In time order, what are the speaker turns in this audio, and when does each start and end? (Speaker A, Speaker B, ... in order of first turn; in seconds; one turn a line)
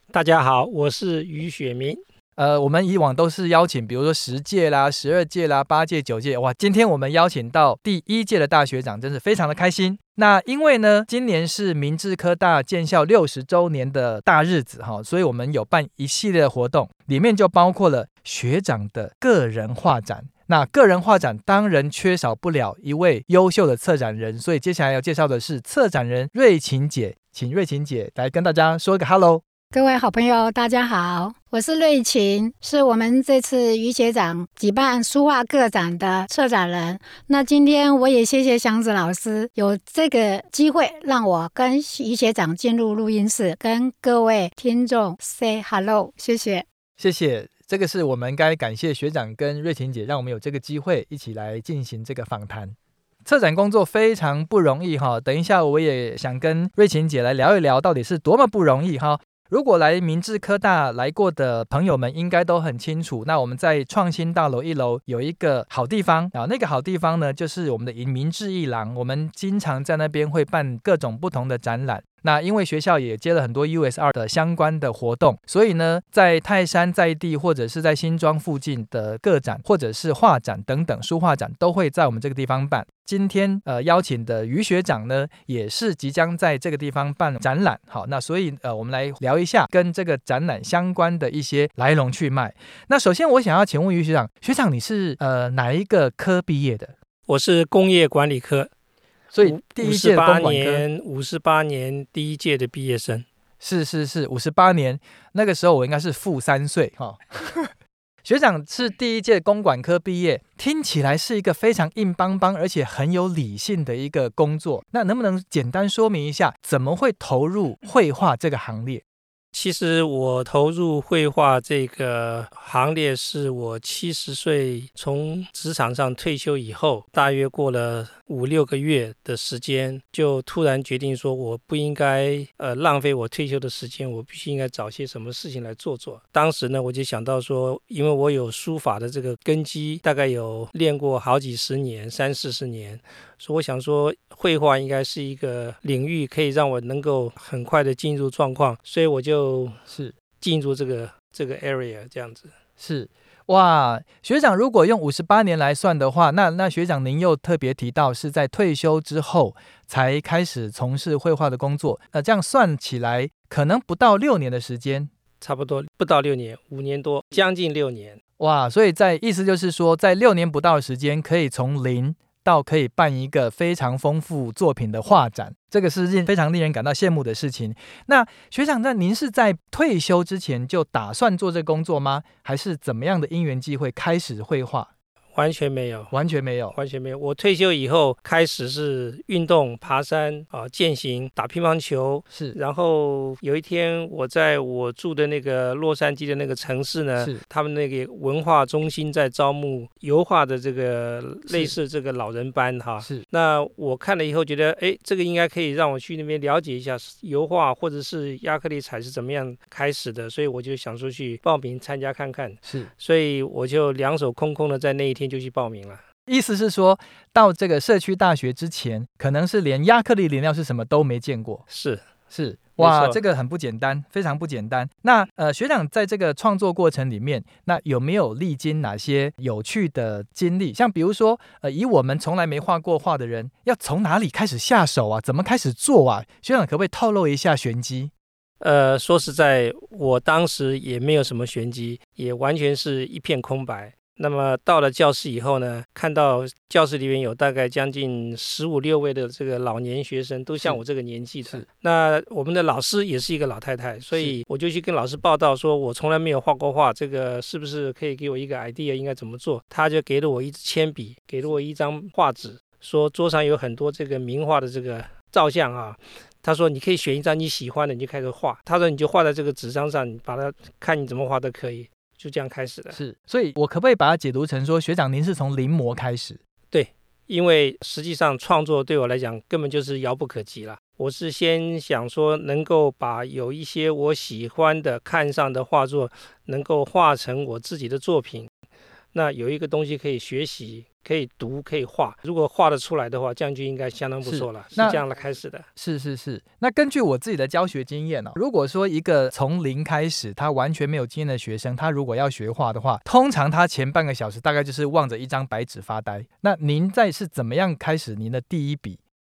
Speaker A: 0.1-2.0
Speaker B: 2.4-29.4
Speaker C: 29.7-46.7
Speaker B: 47.0-96.9
Speaker A: 97.3-98.7
Speaker B: 99.3-100.8
Speaker A: 99.4-103.3
Speaker B: 103.6-107.7
Speaker B: 108.2-119.0
Speaker A: 119.5-149.8
Speaker B: 149.9-150.2
Speaker A: 150.4-152.5
Speaker B: 152.8-165.1
Speaker A: 165.4-168.2
Speaker B: 168.4-184.9
Speaker A: 185.3-186.1
Speaker B: 186.1-186.8
Speaker A: 186.7-216.0
Speaker B: 197.2-197.4
Speaker B: 201.5-201.8
Speaker B: 216.3-221.6
Speaker A: 221.7-222.0
Speaker B: 222.3-238.1
Speaker A: 222.8-223.2
Speaker A: 238.6-273.0
Speaker B: 272.9-276.4
Speaker A: 276.7-288.5
Speaker A: 289.1-295.7
Speaker B: 294.2-295.0
Speaker B: 295.8-309.0